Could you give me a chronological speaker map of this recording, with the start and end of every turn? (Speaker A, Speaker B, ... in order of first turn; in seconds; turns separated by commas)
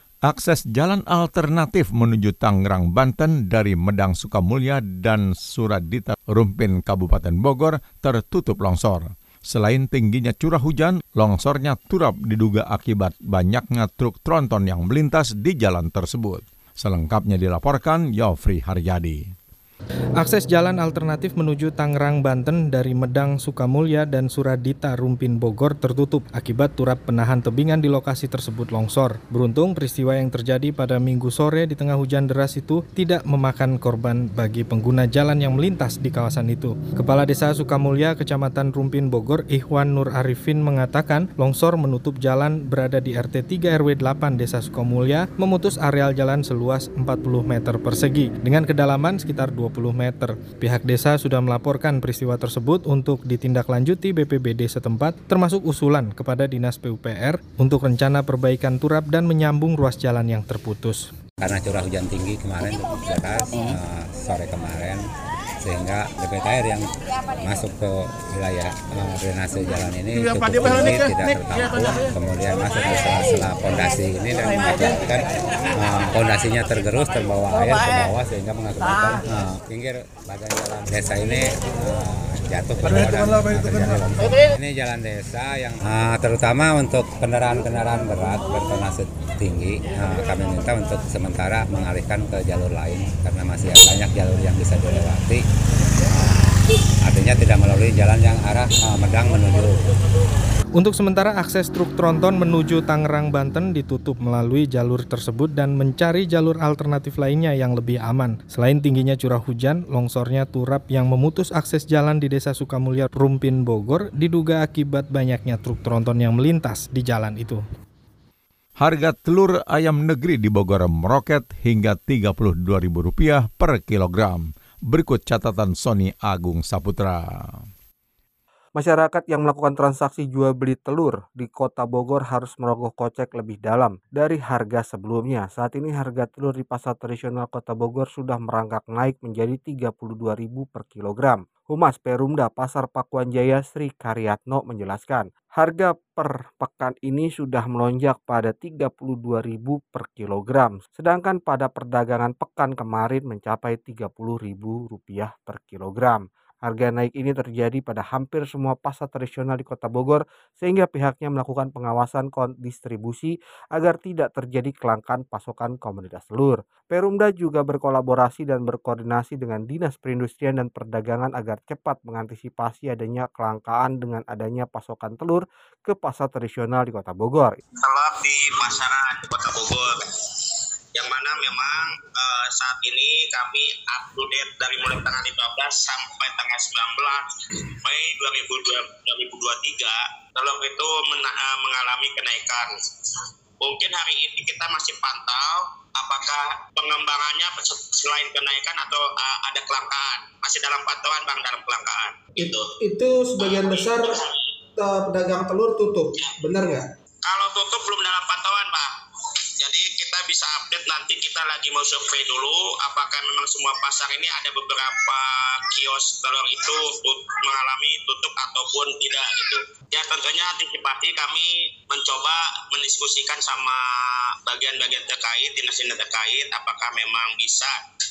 Speaker A: 0.2-19.3, Speaker B: 20.2-61.1, Speaker C: 61.4-65.0, Speaker C: 65.6-95.4, Speaker C: 97.0-99.8, Speaker B: 100.8-117.6, Speaker A: 118.8-127.7, Speaker D: 128.8-177.6, Speaker E: 177.8-180.1, Speaker E: 180.9-187.2, Speaker E: 187.8-192.7, Speaker E: 193.6-202.7, Speaker F: 202.4-204.2, Speaker E: 203.4-204.0, Speaker F: 204.8-206.8, Speaker E: 207.2-208.9, Speaker E: 209.6-223.8, Speaker E: 224.5-227.8